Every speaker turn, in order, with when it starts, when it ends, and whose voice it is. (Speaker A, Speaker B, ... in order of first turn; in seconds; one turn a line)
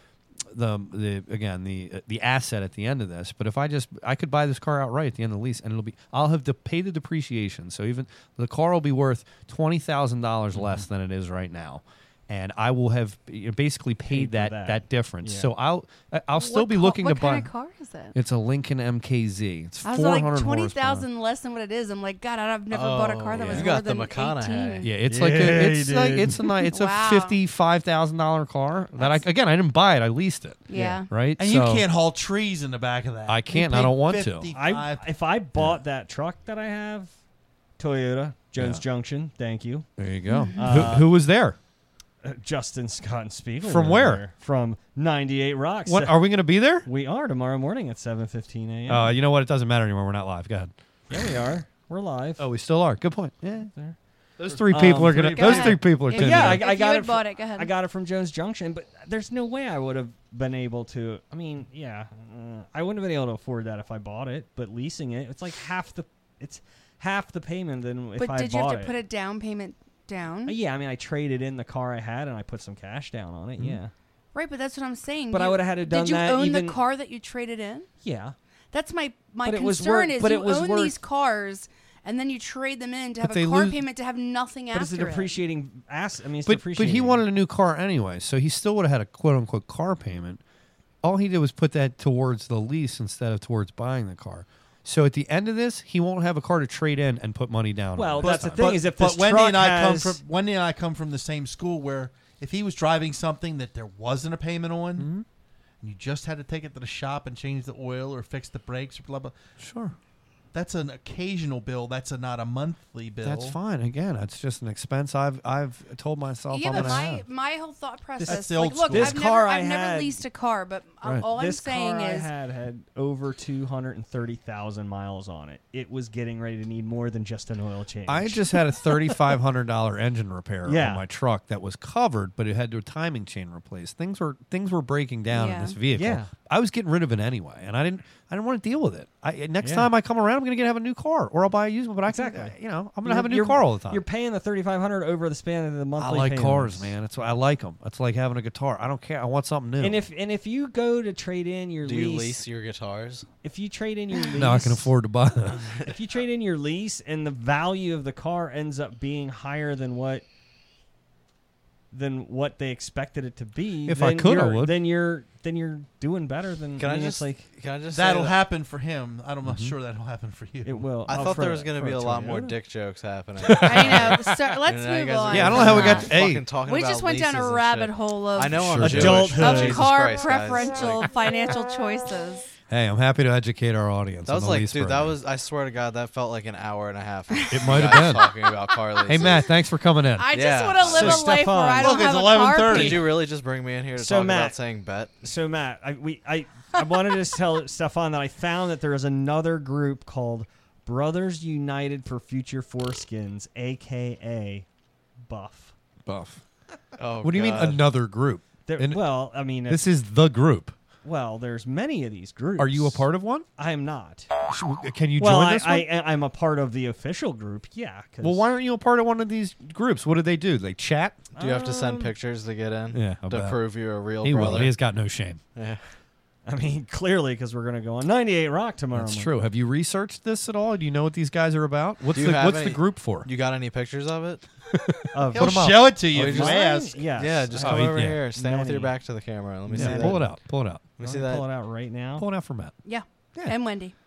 Speaker A: 0.4-17.5
Speaker B: 14.1-15.5
Speaker C: 16.4-18.2
Speaker A: 18.1-21.1
Speaker C: 19.8-24.9
Speaker D: 22.7-24.9
Speaker A: 23.4-23.8
Speaker A: 24.8-31.9
Speaker B: 25.1-26.4
Speaker C: 26.6-27.4
Speaker C: 29.0-29.3
Speaker C: 30.7-31.1
Speaker E: 31.4-35.1
Speaker A: 33.3-34.5
Speaker B: 34.5-37.1
Speaker B: 37.8-39.9
Speaker A: 38.6-38.9
Speaker A: 40.0-41.6
Speaker C: 40.3-40.9
Speaker B: 40.5-41.1
Speaker B: 42.2-46.2
Speaker A: 43.6-44.3
Speaker A: 45.9-46.9
Speaker B: 46.8-49.1
Speaker A: 48.9-51.2
Speaker B: 51.1-52.5
Speaker A: 52.4-53.7
Speaker A: 54.4-56.7
Speaker E: 54.5-55.8
Speaker B: 54.7-55.4
Speaker C: 55.4-57.7
Speaker B: 56.1-69.0
Speaker C: 68.2-70.6
Speaker B: 70.5-73.9
Speaker C: 74.3-77.9
Speaker B: 75.3-76.8
Speaker B: 78.0-78.3
Speaker C: 78.7-85.4
Speaker B: 79.4-81.0
Speaker A: 83.2-83.8
Speaker B: 84.7-87.2
Speaker A: 86.5-90.4
Speaker A: 91.0-98.8
Speaker B: 98.0-100.2
Speaker E: 98.2-105.1
Speaker A: 105.0-105.2
Speaker E: 105.8-109.3
Speaker A: 109.6-110.0
Speaker E: 110.5-113.6
Speaker A: 113.2-117.2
Speaker C: 116.5-122.3
Speaker B: 118.2-120.2
Speaker E: 118.3-119.2
Speaker B: 121.3-129.2
Speaker A: 128.1-144.0
Speaker B: 130.7-131.0
Speaker C: 135.3-135.8
Speaker B: 135.9-136.3
Speaker B: 139.6-139.9
Speaker B: 142.1-146.9
Speaker A: 146.0-150.1
Speaker B: 149.8-152.4
Speaker D: 151.8-153.3
Speaker B: 153.4-154.9
Speaker A: 154.3-155.7
Speaker B: 155.8-160.2
Speaker B: 161.9-167.4
Speaker A: 163.8-164.8
Speaker D: 166.8-168.4
Speaker E: 167.9-170.9
Speaker A: 169.4-169.8
Speaker B: 170.6-172.6
Speaker D: 171.1-181.1
Speaker A: 173.4-174.4
Speaker C: 173.6-182.5
Speaker A: 175.3-176.5
Speaker A: 178.5-179.4
Speaker B: 178.8-179.8
Speaker A: 182.7-185.2
Speaker D: 184.3-189.4
Speaker C: 187.4-188.3
Speaker A: 187.5-188.3
Speaker A: 189.0-190.3
Speaker C: 189.1-189.4
Speaker C: 190.2-193.1
Speaker D: 190.3-191.3
Speaker B: 190.8-192.2
Speaker E: 191.8-193.1
Speaker D: 192.7-195.2
Speaker B: 194.0-194.6
Speaker B: 195.2-204.7
Speaker B: 205.3-205.7
Speaker A: 206.1-206.4
Speaker D: 207.0-207.8
Speaker A: 207.2-210.8
Speaker B: 208.7-209.8
Speaker B: 211.0-214.3
Speaker A: 212.6-213.5
Speaker A: 214.5-215.9
Speaker B: 215.2-218.5
Speaker A: 218.2-221.2
Speaker B: 221.4-222.1
Speaker D: 221.4-224.8
Speaker A: 222.9-223.6
Speaker A: 224.2-225.4
Speaker D: 225.6-225.8
Speaker B: 226.5-229.3
Speaker A: 228.9-233.3
Speaker D: 232.1-234.4
Speaker A: 234.7-236.5
Speaker B: 235.1-238.9
Speaker E: 235.3-237.1
Speaker D: 236.1-236.6
Speaker D: 237.2-240.3
Speaker A: 237.6-238.2
Speaker A: 239.7-240.8
Speaker B: 239.7-240.2
Speaker D: 241.0-241.5
Speaker B: 241.0-242.2
Speaker A: 242.2-242.8
Speaker C: 242.8-243.9